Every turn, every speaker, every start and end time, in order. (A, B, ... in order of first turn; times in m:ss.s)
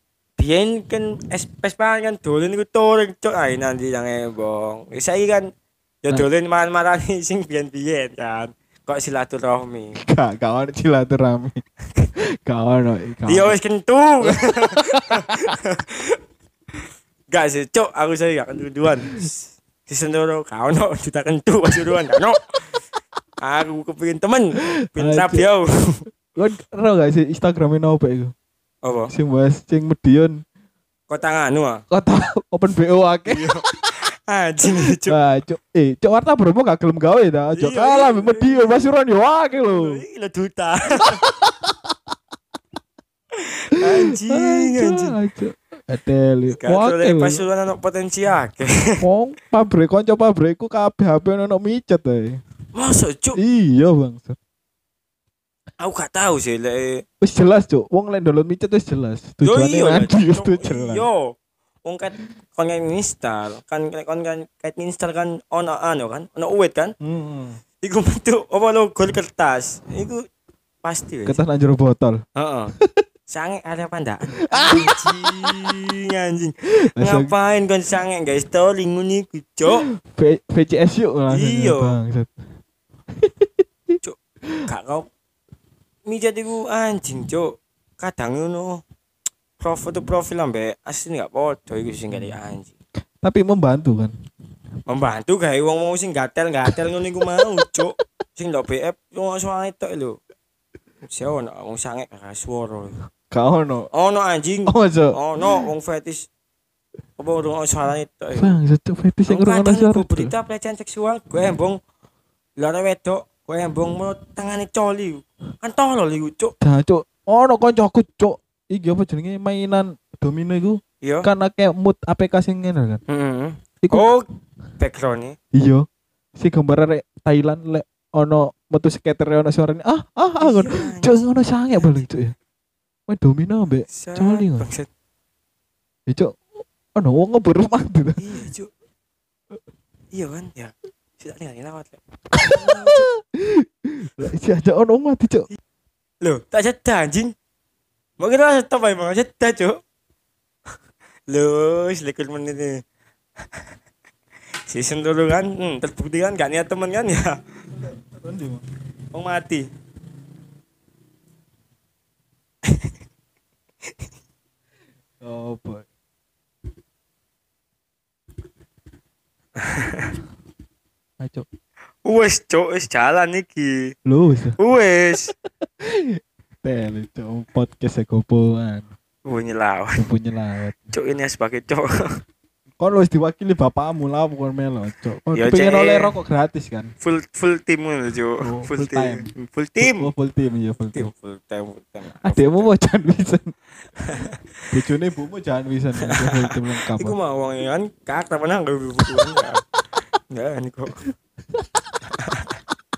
0:00.4-0:05.5 A
0:06.0-0:10.0 A
0:10.0-0:11.6 B
0:12.4-0:13.6 B
0:13.3-0:16.2 A
0:14.2-0:15.6 B
0:17.3-0:22.4 A
0:23.4-0:26.0 A
0:24.8-0:25.5 B
0:26.3-0:28.3 B
0:28.8-0:29.1 A
0:29.1-0:30.4 B
0:31.1-0:31.8 A
0:31.9-0:33.5 B
0:33.2-0:35.2 A
0:34.9-0:40.0 B
0:37.5-0:38.9 A
0:39.7-0:41.2 A
0:41.2-0:42.0 B
0:43.4-0:45.2 A
0:43.8-0:47.4 B
0:46.5-0:49.0 A
0:49.0-0:52.4 B
0:52.7-0:53.4 A
0:53.4-0:54.4 B
0:55.8-0:57.0 A
0:57.2-1:01.1 B
0:59.4-1:01.3 A
1:01.8-1:06.9 A
1:07.0-1:07.6 B
1:07.8-1:10.2 A
1:10.8-1:11.4 A
1:11.2-1:12.2 B
1:12.4-1:12.7 A
1:12.7-1:13.0 B
1:13.3-1:19.9 A
1:14.4-1:15.8 B
1:16.8-1:17.3 B
1:19.9-1:22.3 B
1:21.3-1:22.0 A
1:23.1-1:23.6 B
1:24.0-1:25.1 A
1:26.1-1:28.8 A
1:29.6-1:32.7 A
1:33.2-1:34.1 B
1:34.9-1:40.2 A
1:41.0-1:43.0 A
1:43.3-1:43.9 B
1:43.9-1:46.3 A
1:44.7-1:45.6 B
1:47.2-1:48.5 A
1:48.4-1:50.3 B
1:49.3-1:51.8 A
1:52.6-1:56.5 A
1:56.6-2:03.0 B
2:01.0-2:01.3 A
2:03.1-2:04.3 A
2:04.8-2:05.4 A
2:05.5-2:12.4 B
2:10.4-2:12.0 A
2:13.1-2:14.7 B
2:13.9-2:14.9 A
2:16.1-2:16.4 B
2:16.9-2:18.4 B
2:18.2-2:18.7 A
2:20.1-2:23.1 A
2:22.3-2:25.5 B
2:26.2-2:27.3 A
2:28.2-2:29.8 A
2:31.3-2:32.8 A
2:34.7-2:37.4 A
2:37.8-2:38.6 B
2:39.1-2:39.7 A
2:42.6-2:42.9 A
2:45.2-2:45.9 B
2:49.6-2:50.2 A
2:51.2-2:51.5 B
2:52.0-2:53.9 A
2:54.0-2:54.6 B
2:54.6-2:55.3 A
2:55.8-2:58.9 B
2:59.2-3:00.0 A
3:00.0-3:00.9 B
3:00.9-3:02.2 A
3:02.8-3:06.9 B
3:05.3-3:06.1 A
3:07.0-3:10.1 A
3:08.4-3:11.1 B
3:10.9-3:12.7 A
3:12.2-3:13.5 B
3:14.0-3:14.4 A
3:14.7-3:17.2 B
3:16.0-3:19.6 A
3:20.3-3:21.1 A
3:21.6-3:21.8 B
3:22.0-3:22.6 A